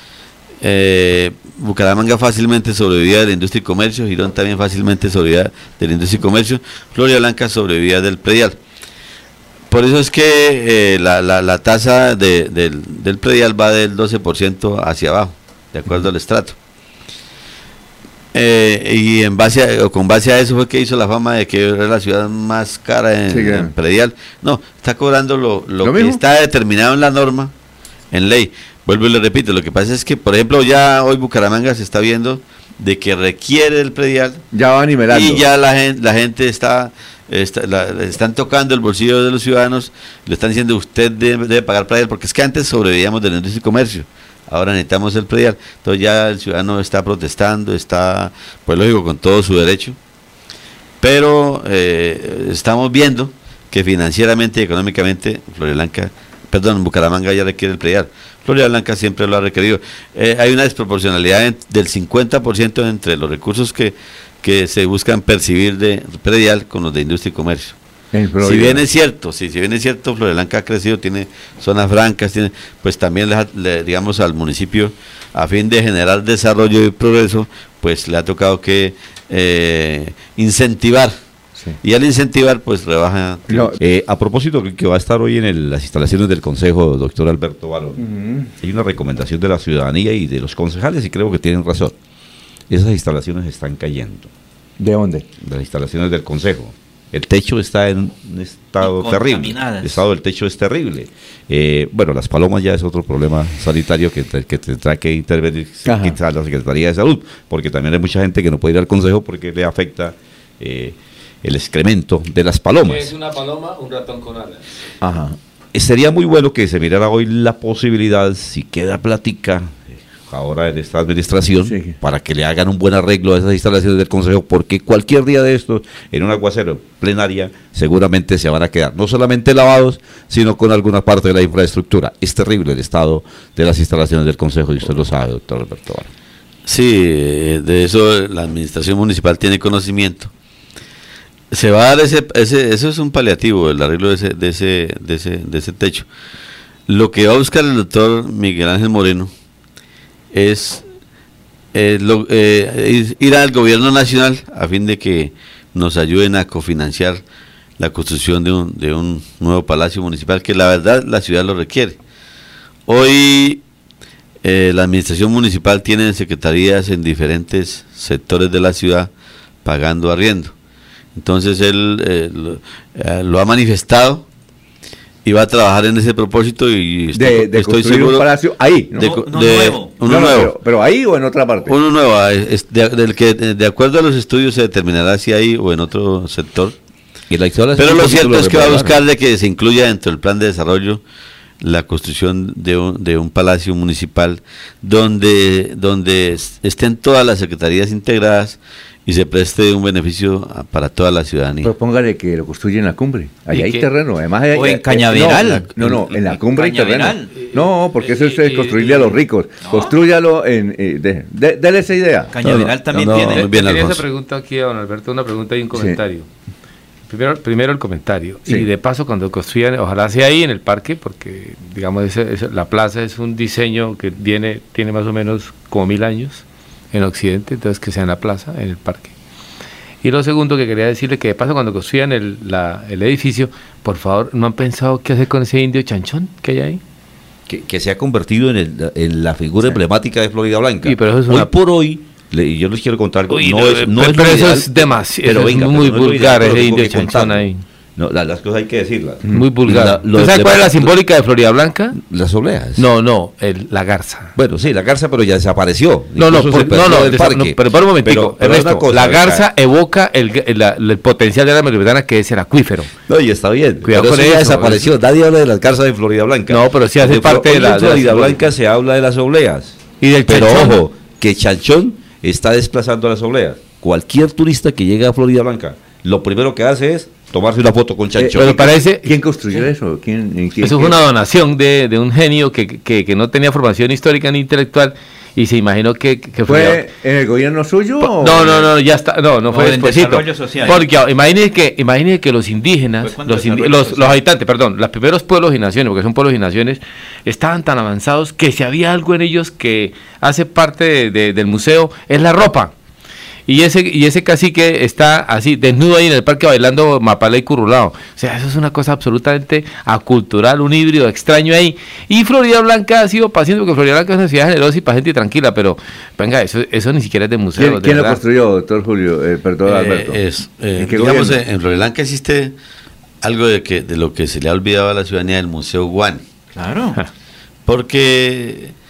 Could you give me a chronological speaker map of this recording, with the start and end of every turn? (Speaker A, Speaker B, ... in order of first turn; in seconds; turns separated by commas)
Speaker A: 0.6-8.6, Speaker A: 9.7-16.6, Speaker A: 18.3-27.5, Speaker B: 23.3-23.7, Speaker B: 25.8-26.2, Speaker A: 28.1-34.4, Speaker B: 34.5-35.4, Speaker A: 35.1-50.0, Speaker A: 51.0-67.8, Speaker B: 68.1-68.8, Speaker A: 68.4-81.2, Speaker A: 81.8-83.7, Speaker B: 83.5-83.8, Speaker C: 83.8-88.0, Speaker B: 88.0-88.5, Speaker C: 88.6-91.9, Speaker C: 92.7-94.3, Speaker B: 94.8-95.3, Speaker C: 95.4-113.1, Speaker D: 98.8-100.0, Speaker B: 105.8-106.2, Speaker E: 112.8-114.6, Speaker B: 115.0-115.4, Speaker C: 115.7-136.1, Speaker B: 121.6-122.0, Speaker A: 136.7-140.3, Speaker A: 141.5-146.1, Speaker A: 146.9-149.3, Speaker A: 150.3-150.8, Speaker A: 151.7-157.2, Speaker A: 157.8-162.0, Speaker A: 162.9-163.6, Speaker A: 164.4-169.1, Speaker A: 169.6-170.5, Speaker A: 171.1-174.2, Speaker A: 175.2-178.3, Speaker B: 177.1-179.1, Speaker A: 178.9-180.5, Speaker D: 179.0-180.0, Speaker B: 180.0-181.8, Speaker A: 181.7-186.8, Speaker C: 187.3-189.0, Speaker A: 187.8-191.0, Speaker A: 191.6-201.7, Speaker B: 201.6-212.3, Speaker E: 203.5-203.9, Speaker D: 204.5-207.3, Speaker E: 207.5-209.2, Speaker D: 209.6-209.9, Speaker D: 212.3-213.5, Speaker C: 212.4-213.4, Speaker A: 212.9-214.0, Speaker E: 213.3-216.3, Speaker B: 215.7-216.0, Speaker E: 217.1-229.1, Speaker E: 230.0-236.8, Speaker C: 237.5-247.5, Speaker E: 240.8-241.5, Speaker E: 243.3-247.6, Speaker C: 248.0-250.9, Speaker E: 249.3-252.0, Speaker C: 251.9-252.8, Speaker E: 252.8-254.3, Speaker C: 254.3-259.4, Speaker E: 256.2-262.9, Speaker C: 263.1-278.6, Speaker E: 263.8-264.9, Speaker E: 266.5-268.4, Speaker E: 270.0-270.8, Speaker B: 278.1-281.0, Speaker E: 278.4-279.1, Speaker E: 280.6-286.8, Speaker B: 286.5-288.7, Speaker E: 288.0-302.7, Speaker D: 289.5-290.9, Speaker D: 293.0-294.2, Speaker E: 303.5-318.2, Speaker B: 317.5-320.2, Speaker A: 319.6-322.5, Speaker B: 320.8-321.4, Speaker A: 323.2-326.2, Speaker D: 326.5-327.0, Speaker A: 327.6-328.8